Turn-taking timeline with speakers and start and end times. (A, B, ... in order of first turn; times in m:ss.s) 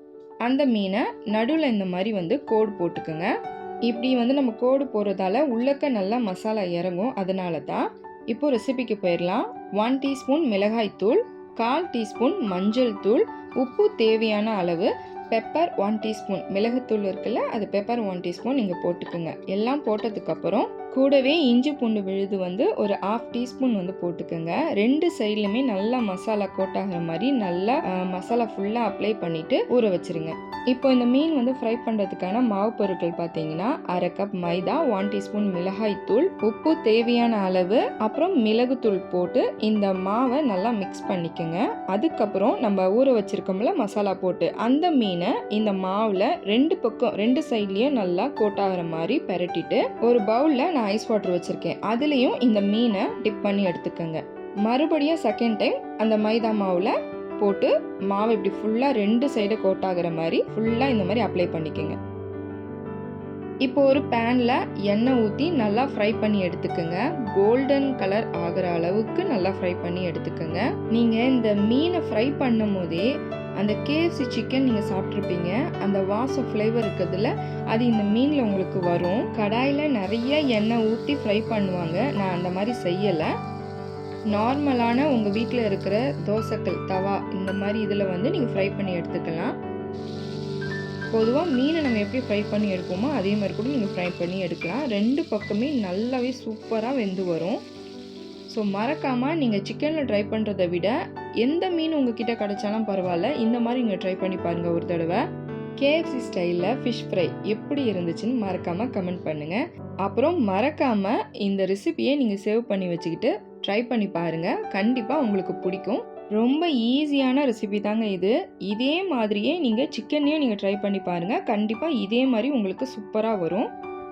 0:00.4-0:03.3 A
0:03.9-1:02.0 A
1:03.6-1:13.0 A
1:13.6-1:23.3 A
1:24.3-1:29.5 A
1:31.1-1:37.6 A
1:38.5-1:45.2 A
1:45.8-2:03.7 A